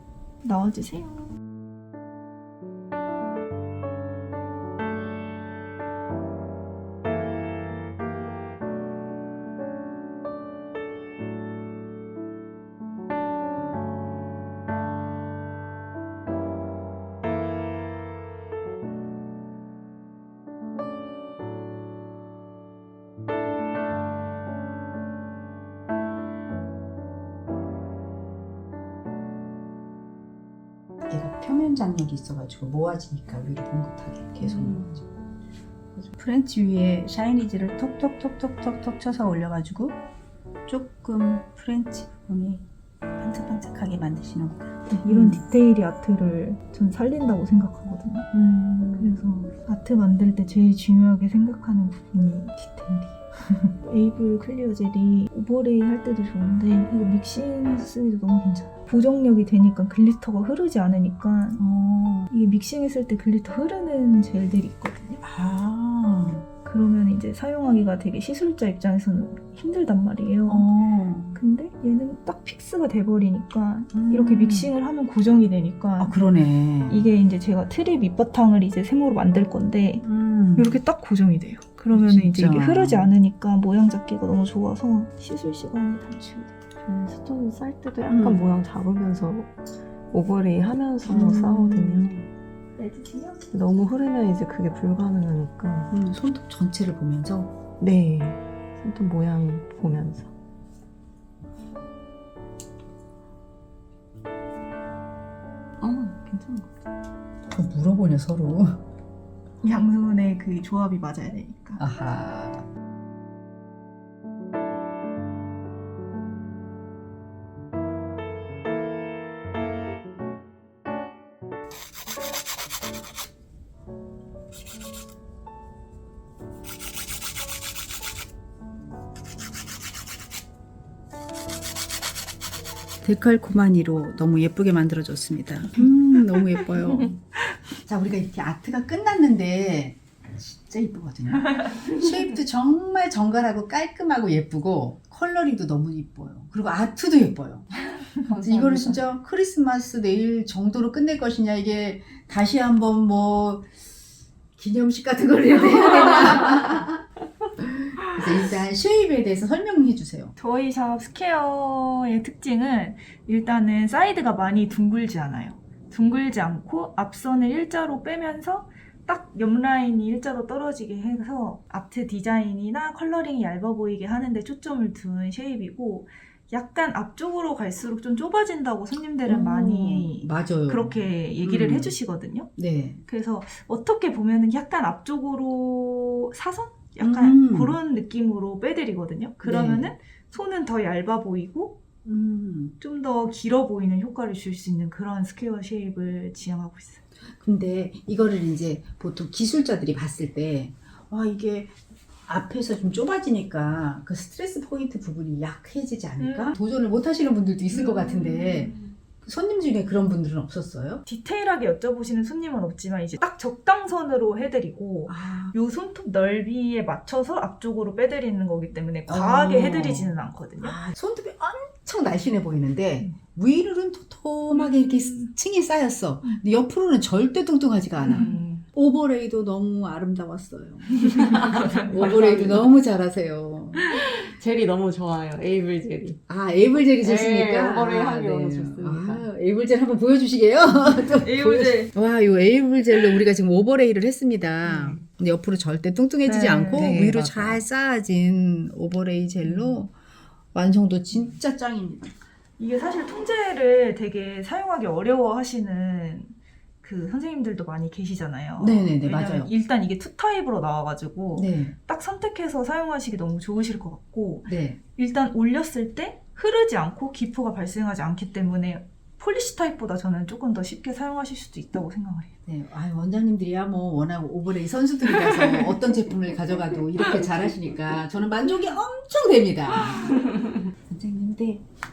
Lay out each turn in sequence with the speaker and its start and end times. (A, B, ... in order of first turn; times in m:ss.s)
0:00.4-0:01.3 A
0:31.1-0:35.0 B
0:34.4-0:34.9 C
0:36.0-0:40.0 B
0:40.7-0:42.6 B
0:43.2-0:45.4 B
0:44.9-0:48.3 A
0:48.3-0:49.2 B
0:49.0-1:05.2 A
1:01.6-1:02.3 B
1:05.2-1:06.4 B
1:06.6-1:10.7 A
1:10.5-1:11.4 B
1:11.4-1:16.2 A
1:13.9-1:14.7 B
1:16.0-1:17.1 B
1:16.9-1:20.0 A
1:20.0-1:20.8 B
1:20.6-1:26.6 A
1:21.9-1:23.1 B
1:26.8-1:29.5 C
1:28.1-1:28.5 B
1:30.1-1:32.2 C
1:31.0-1:32.3 B
1:32.8-1:33.5 A
1:33.5-1:35.9 C
1:35.9-1:37.5 B
1:37.8-1:40.3 C
1:45.8-1:46.6 C
1:45.9-1:46.6 A
1:47.5-1:48.8 B
1:49.6-1:51.8 A
1:51.8-1:52.7 B
2:13.0-2:17.2 B
2:16.7-2:17.1 A
2:17.8-2:27.7 B
2:28.1-2:29.0 C
2:28.3-2:33.7 B
2:34.6-2:37.0 B
2:37.6-2:40.3 B
2:40.4-3:02.5 A
2:59.3-3:02.0 B
3:02.6-3:03.0 B
3:03.1-3:11.8 A
3:07.0-3:07.8 B
3:09.4-3:09.9 B
3:12.0-3:12.8 B
3:12.8-3:17.0 A
3:17.4-3:21.8 B
3:22.3-3:31.0 B
3:26.2-3:26.6 A
3:27.7-3:28.9 A
3:31.0-3:40.8 A
3:35.1-3:35.6 B
3:39.1-3:53.9 B
3:44.5-3:45.3 A
3:48.0-3:48.6 A
3:51.0-3:52.2 A
3:51.3-3:52.7 C
3:53.9-3:56.2 C
3:56.3-4:09.9 B
3:57.0-3:59.3 C
4:01.1-4:02.0 A
4:04.6-4:05.0 C
4:06.2-4:07.1 A
4:06.8-4:07.6 C
4:09.4-4:09.8 A
4:10.5-4:12.1 B
4:12.6-4:32.3 A
4:18.6-4:19.5 B
4:21.3-4:21.8 B
4:24.5-4:24.8 B
4:32.5-4:40.2 B
4:40.9-4:41.6 B